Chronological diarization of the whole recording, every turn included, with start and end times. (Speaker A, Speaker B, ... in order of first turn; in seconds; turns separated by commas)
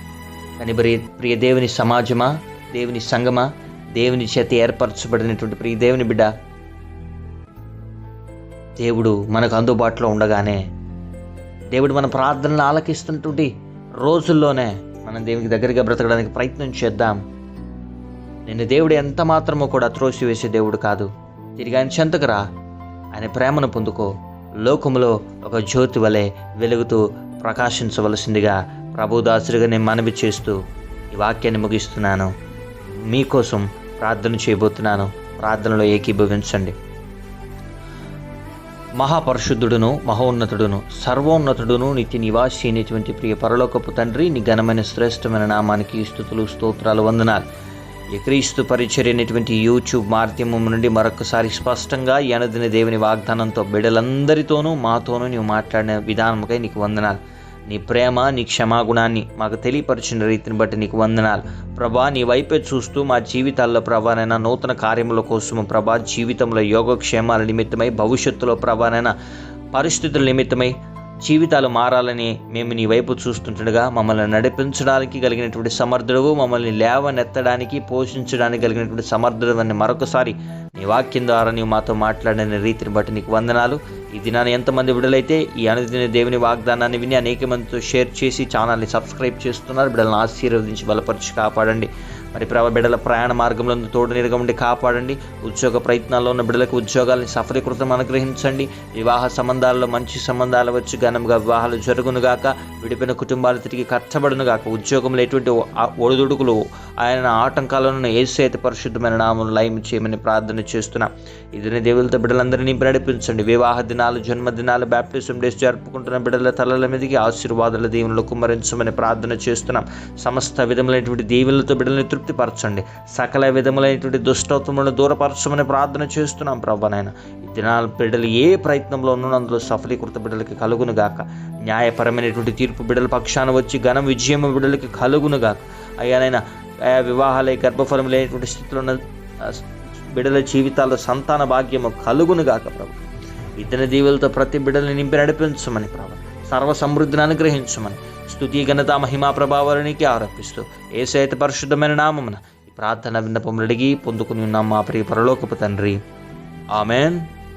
Speaker A: 0.6-6.3, Speaker A: 8.8-10.6, Speaker A: 11.7-17.2, Speaker A: 18.5-22.4, Speaker A: 23.1-24.1, Speaker A: 24.6-30.6, Speaker A: 31.1-32.3, Speaker A: 33.1-36.7, Speaker A: 39.0-47.4, Speaker A: 48.1-69.1, Speaker A: 69.7-143.0, Speaker A: 143.6-156.0, Speaker A: 156.7-157.3